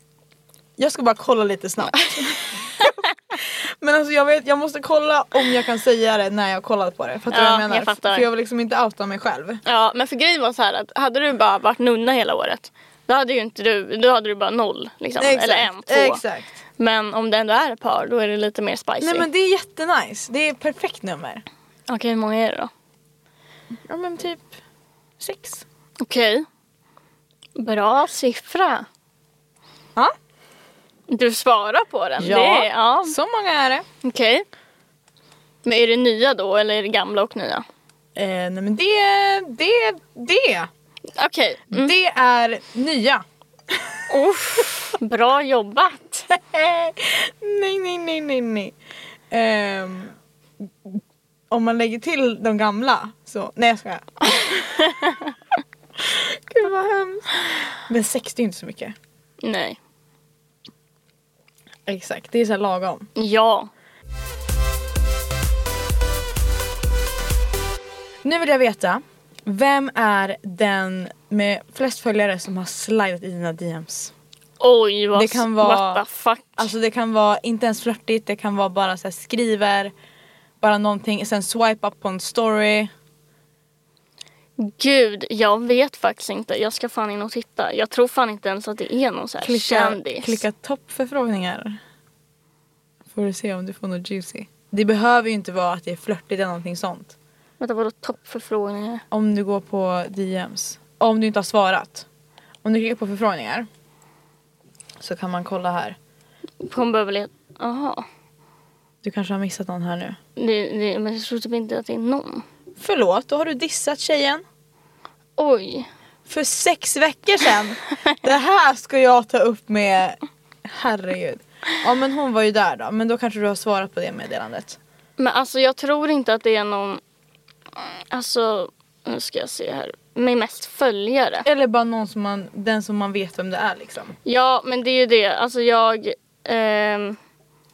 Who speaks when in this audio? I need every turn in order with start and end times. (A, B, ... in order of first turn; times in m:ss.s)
0:00.8-0:09.6 A
0:07.3-0:08.3 B
0:09.6-0:16.2 B
0:15.2-0:16.5 A
0:16.8-0:19.2 B
0:19.0-0:21.4 A
0:21.9-0:22.7 B
0:23.8-0:24.6 A
0:25.2-0:25.6 A
0:26.0-0:26.4 B
0:27.6-0:28.8 B
0:31.1-0:33.2 B
0:32.2-0:33.8 A
0:34.0-0:34.4 B
0:35.6-0:37.6 B
0:38.1-0:40.7 A
0:41.2-0:41.9 B
0:41.7-0:44.1 A
0:44.1-0:46.3 B
0:46.3-0:48.7 A
0:49.3-0:50.1 A
0:50.8-0:54.6 A
0:54.4-0:55.3 B
0:56.0-0:58.9 A
0:59.4-0:59.8 B
1:01.8-1:03.1 A
1:03.2-1:03.7 B
1:08.2-1:14.1 A
1:14.6-1:16.7 B
1:15.1-1:16.0 A
1:16.6-1:19.9 A
1:20.6-1:22.9 A
1:24.6-1:30.4 B
1:29.4-1:31.8 A
1:33.1-1:37.1 A
1:37.6-1:39.0 B
1:39.1-1:42.0 A
1:42.6-1:43.7 A
1:45.0-1:46.0 A
1:46.6-1:48.0 B
1:49.0-1:50.2 A
1:50.4-1:52.4 B
1:52.8-1:54.4 A
1:55.4-1:55.9 B
1:56.3-2:04.8 A
2:05.2-2:07.0 B
2:07.8-2:11.4 B
2:11.4-2:14.2 A
2:14.2-2:17.2 B